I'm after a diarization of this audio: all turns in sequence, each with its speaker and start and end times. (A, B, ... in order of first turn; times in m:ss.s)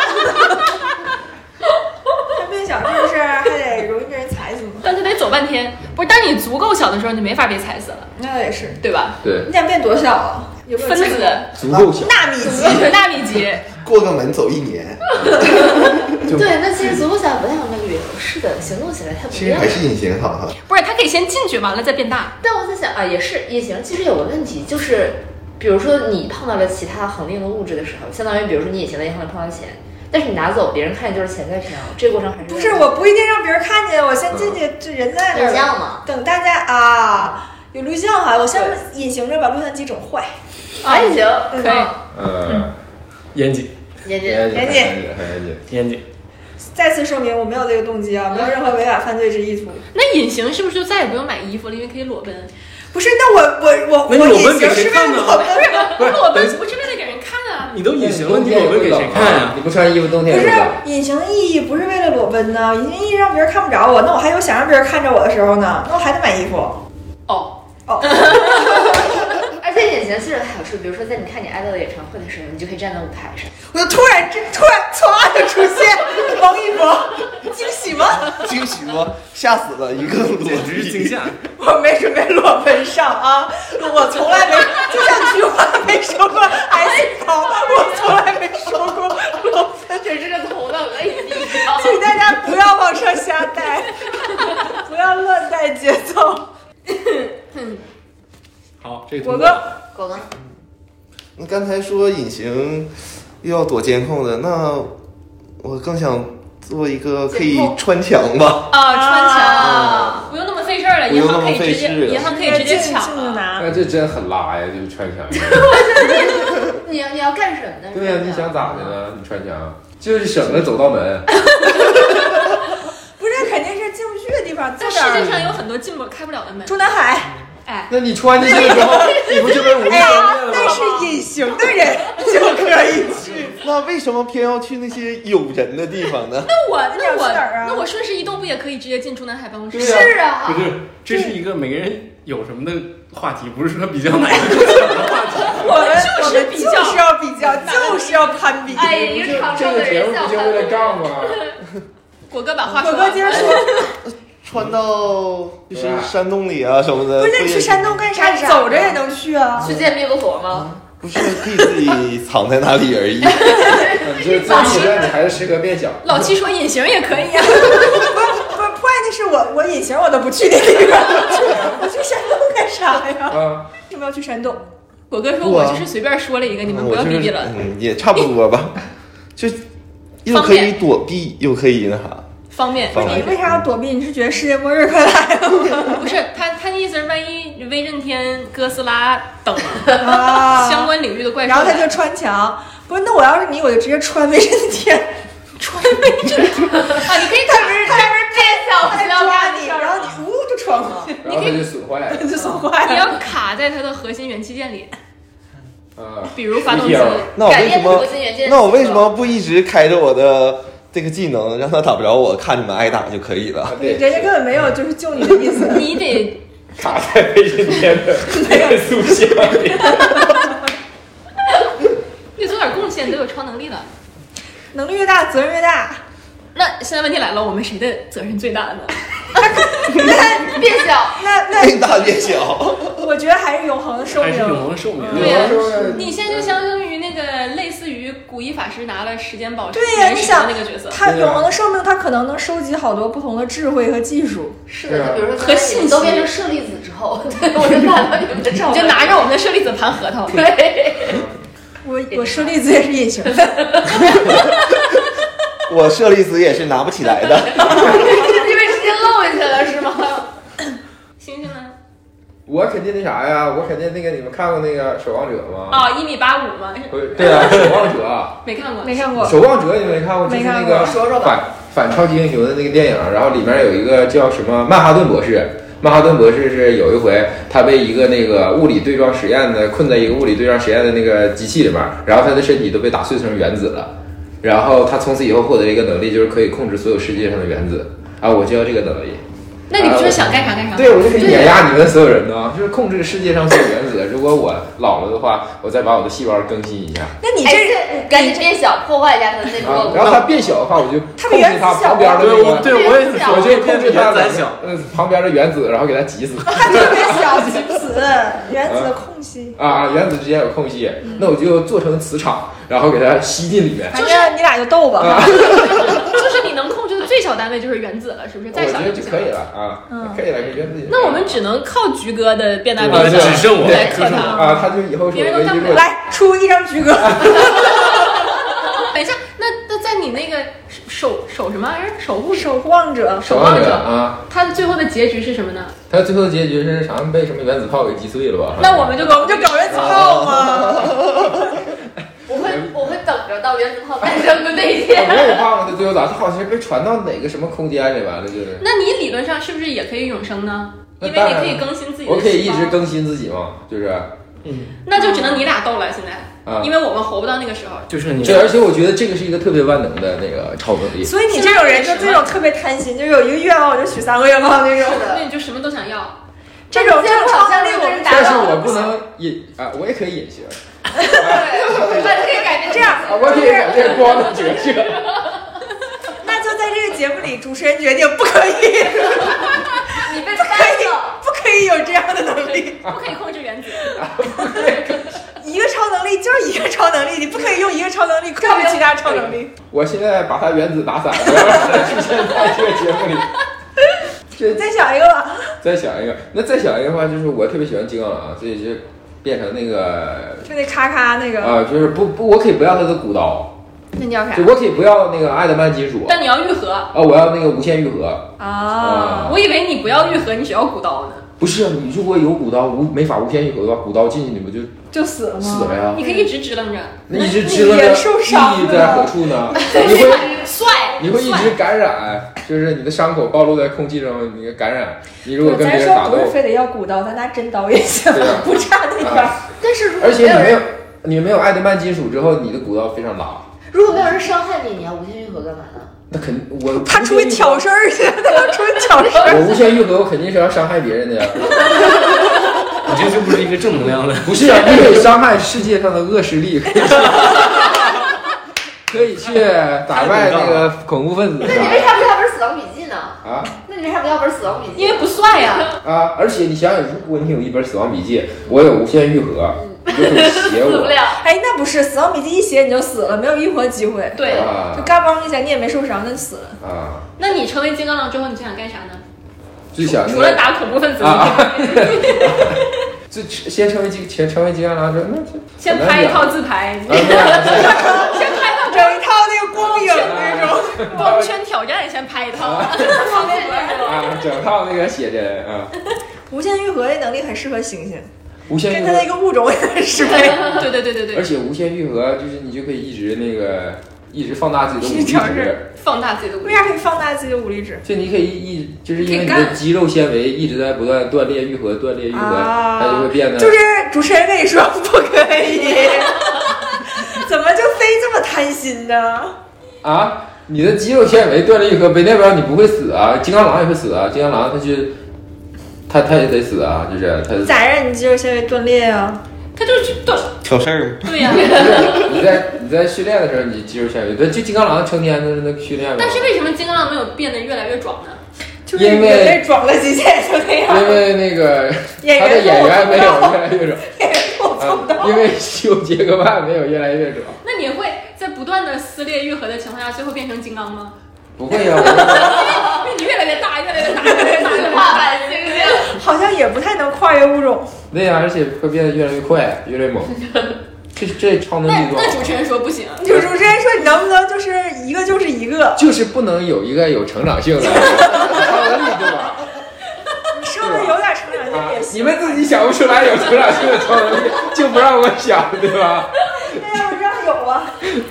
0:02.3-0:04.9 A
0:04.8-0:08.1 B
0:08.2-0:08.8 A
0:08.8-0:09.2 B
0:09.2-0:09.5 C
0:09.4-0:11.5 A
0:10.8-0:11.5 B
0:11.6-0:12.3 C
0:11.6-0:12.0 D
0:12.0-0:12.9 A
0:12.4-0:13.7 B
0:13.8-0:15.0 D
0:15.3-0:19.8 E
0:19.3-0:20.6 D
0:20.6-0:22.4 B
0:22.4-0:33.0 E
0:32.4-0:40.3 A
0:34.3-0:34.6 C
0:35.3-0:36.0 E
0:40.8-0:41.9 B
0:40.8-0:41.9 E
0:41.5-0:41.9 A
0:42.1-0:42.7 C
0:43.3-0:43.7 F
0:44.0-0:44.7 E
0:44.2-0:45.6 C
0:44.5-0:45.0 A
0:45.7-0:46.0 F
0:46.7-0:49.8 A
0:49.9-0:52.5 B
0:52.9-0:56.0 A
0:54.1-0:55.5 F
0:55.5-0:57.8 B
0:57.7-0:59.6 F
0:58.0-1:00.8 C
1:00.2-1:06.8 A
1:07.3-1:08.8 B
1:07.9-1:08.5 A
1:08.4-1:13.5 E
1:13.7-1:18.5 A
1:18.3-1:21.2 D
1:20.1-1:21.4 F
1:21.5-1:29.8 A
1:27.7-1:28.0 E
1:29.8-1:32.1 E
1:31.7-1:36.4 A
1:37.5-1:37.8 B
1:38.8-1:39.7 F
1:39.2-1:39.7 A
1:39.9-1:40.3 E
1:41.4-1:44.9 D
1:45.6-1:48.8 D
1:47.3-1:47.7 E
1:48.7-1:53.4 B
1:48.8-1:49.7 A
1:49.3-1:50.2 E
1:49.8-1:50.2 D
1:51.1-1:52.4 D
1:52.2-1:53.7 A
1:53.6-1:56.0 C
1:55.3-1:59.0 E
1:57.9-2:01.3 C
2:03.2-2:05.5 A
2:04.8-2:06.8 B
2:06.7-2:07.4 A
2:07.6-2:11.1 B
2:07.9-2:11.1 C
2:08.4-2:13.5 A
2:13.4-2:16.5 D
2:16.4-2:20.2 B
2:16.9-2:17.8 A
2:19.7-2:20.1 C
2:19.7-2:20.7 E
2:20.4-2:25.8 F
2:21.1-2:21.3 A
2:25.5-2:29.3 A
2:25.6-2:28.4 B
2:28.7-2:31.3 E
2:29.0-2:31.4 C
2:32.3-2:33.9 B
2:32.7-2:33.9 A
2:33.3-2:33.7 D
2:34.4-2:38.1 D
2:35.7-2:36.1 C
2:37.2-2:39.7 A
2:38.1-2:39.0 E
2:39.6-2:40.7 E
2:39.6-2:39.9 D
2:40.5-2:43.9 D
2:43.2-2:45.1 E
2:44.0-2:46.3 C
2:44.5-2:44.9 B
2:46.0-2:48.3 B
2:47.6-2:54.6 A
2:53.3-2:53.7 C
2:55.1-2:57.6 B
2:55.4-2:55.9 D
2:56.6-2:58.8 D
2:59.4-2:59.6 D
3:00.2-3:02.3 D
3:00.3-3:00.8 B
3:02.5-3:03.3 B
3:02.9-3:03.6 D
3:03.0-3:06.1 A
3:05.8-3:11.9 B
3:10.0-3:10.9 A
3:11.4-3:15.1 A
3:15.6-3:18.0 B
3:16.7-3:20.2 E
3:17.4-3:21.2 A
3:21.2-3:22.4 C
3:21.2-3:21.6 B
3:22.1-3:23.2 A
3:22.8-3:24.9 B
3:26.0-3:27.3 C
3:26.3-3:27.4 B
3:27.3-3:33.8 D
3:27.4-3:29.1 E
3:33.6-3:34.3 C
3:33.8-3:36.1 A
3:35.6-3:36.4 B
3:36.8-3:40.4 C
3:38.3-3:38.8 A
3:42.4-3:43.9 B
3:44.7-3:46.0 A
3:46.5-3:49.0 B
3:49.4-3:50.6 A
3:49.7-3:50.1 B
3:49.9-3:51.2 E
3:51.1-3:52.3 A
3:51.5-3:53.0 D
3:52.9-3:55.5 A
3:54.2-3:55.6 F
3:55.1-3:56.6 C
3:55.1-4:01.0 B
3:59.7-4:04.6 A
4:01.0-4:01.5 C
4:04.7-4:09.3 E
4:04.8-4:05.3 C
4:05.4-4:06.3 B
4:08.6-4:10.4 B
4:10.3-4:11.2 E
4:11.1-4:11.3 C
4:11.8-4:13.9 A
4:12.1-4:12.5 E
4:13.4-4:14.5 E
4:15.7-4:18.1 D
4:17.4-4:20.3 E
4:21.2-4:21.7 B
4:22.4-4:25.9 C
4:25.7-4:29.2 B
4:26.9-4:28.4 C
4:28.8-4:29.4 A
4:29.2-4:49.2 C
4:30.2-4:30.9 A
4:30.7-4:31.4 E
4:49.7-4:51.1 B
4:49.8-4:57.1 C
4:51.1-4:51.7 E
4:57.2-4:58.5 A
4:57.4-5:00.2 E
4:59.6-5:07.5 C
5:01.2-5:02.5 A
5:02.2-5:04.7 F
5:02.5-5:03.7 E
5:06.4-5:09.6 A
5:08.6-5:08.9 C
5:09.6-5:14.0 C
5:13.9-5:16.0 A
5:13.9-5:14.4 B
5:15.0-5:16.0 C
5:15.3-5:19.3 B
5:18.5-5:21.4 C
5:19.9-5:20.2 A
5:20.9-5:24.5 B
5:22.8-5:24.4 F
5:22.9-5:25.9 C
5:24.0-5:24.6 A
5:25.1-5:25.8 B
5:25.7-5:28.2 A
5:27.0-5:27.5 C
5:27.5-5:27.8 B
5:28.6-5:32.5 B
5:32.3-5:33.5 A
5:33.2-5:34.2 C
5:33.2-5:35.7 B
5:35.9-5:39.1 C
5:38.6-5:40.2 B
5:39.0-5:41.4 A
5:39.9-5:41.4 D
5:42.3-5:45.4 E
5:44.8-5:48.7 C
5:48.6-5:52.8 B
5:51.0-5:54.1 C
5:54.4-5:54.8 F
5:54.8-5:57.9 B
5:56.4-5:56.7 C
5:57.9-5:58.5 F
5:58.2-6:01.1 C
6:01.0-6:05.1 A
6:01.3-6:02.4 B
6:04.8-6:05.2 E
6:04.9-6:06.2 B
6:06.7-6:08.8 A
6:06.7-6:08.9 E
6:08.0-6:10.5 C
6:10.9-6:11.8 A
6:11.1-6:12.2 C
6:11.2-6:13.7 E
6:12.6-6:14.0 A
6:12.8-6:15.1 C
6:16.2-6:22.8 A
6:20.0-6:21.2 E
6:22.8-6:24.0 B
6:23.9-6:25.1 C
6:25.4-6:29.5 A
6:28.4-6:29.2 E
6:29.7-6:33.3 C
6:34.3-6:34.6 C
6:34.4-6:35.6 A
6:35.6-6:40.5 C
6:40.4-6:41.6 A
6:41.4-6:43.5 C
6:44.0-6:44.5 B
6:44.3-6:46.2 C
6:46.1-6:46.9 B
6:46.9-6:49.4 C
6:48.4-6:49.3 A
6:49.2-6:51.2 B
6:51.4-6:54.7 C
6:54.9-6:56.3 A
6:55.4-6:56.0 C
6:55.9-6:57.0 B
6:57.1-7:00.4 C
6:57.1-6:59.1 A
6:59.5-7:01.0 E
6:59.5-7:01.6 B
7:01.0-7:06.4 C
7:05.4-7:09.4 A
7:08.1-7:08.5 C
7:09.0-7:09.4 C
7:09.6-7:10.6 E
7:10.0-7:13.5 C
7:13.7-7:15.9 E
7:16.1-7:17.6 C
7:16.7-7:19.4 A
7:18.9-7:19.8 E
7:19.2-7:21.9 C
7:22.8-7:24.6 F
7:24.2-7:27.9 C
7:28.9-7:32.0 C
7:29.2-7:30.7 F
7:31.4-7:35.1 E
7:33.2-7:33.5 C
7:34.8-7:35.8 B
7:35.8-7:41.0 C
7:39.8-7:41.2 E
7:41.2-7:46.6 A
7:44.2-7:44.5 B
7:44.2-7:44.5 E
7:44.3-7:44.9 C
7:46.6-7:47.0 C
7:47.2-7:49.0 B
7:49.7-7:58.3 C
7:49.8-7:52.6 B
7:55.6-7:59.0 B
7:57.4-8:01.0 A
7:59.5-8:03.8 B
7:59.7-8:01.3 C
8:02.3-8:03.2 C
8:02.8-8:04.0 A
8:03.0-8:04.0 E
8:03.8-8:05.7 C
8:06.3-8:08.1 A
8:08.5-8:09.1 C
8:08.7-8:10.6 A
8:10.2-8:11.3 B
8:11.1-8:15.6 C
8:14.8-8:15.5 A
8:15.7-8:16.7 B
8:16.4-8:17.8 A
8:17.8-8:23.6 C
8:19.1-8:19.5 B
8:22.1-8:29.4 A
8:29.8-8:35.0 C
8:35.9-8:37.6 C
8:37.4-8:39.2 A
8:39.6-8:40.4 B
8:40.4-8:41.3 D
8:41.0-8:42.1 B
8:41.2-8:46.4 C
8:41.4-8:42.0 E
8:46.0-8:48.2 B
8:48.7-8:51.1 A
8:48.7-8:49.4 C
8:50.7-8:53.8 C
8:52.0-8:55.3 A
8:54.6-8:57.4 C
8:57.4-9:01.0 B
9:01.4-9:02.6 C
9:01.8-9:05.8 B
9:02.5-9:02.8 E
9:04.0-9:04.7 A
9:04.3-9:06.0 E
9:05.7-9:07.7 A
9:07.9-9:10.2 C
9:11.0-9:12.4 C
9:11.6-9:13.0 B
9:13.0-9:15.8 A
9:13.1-9:13.4 C
9:15.8-9:19.4 C
9:20.3-9:22.6 A
9:20.6-9:21.0 C
9:21.5-9:26.2 C
9:26.3-9:27.8 A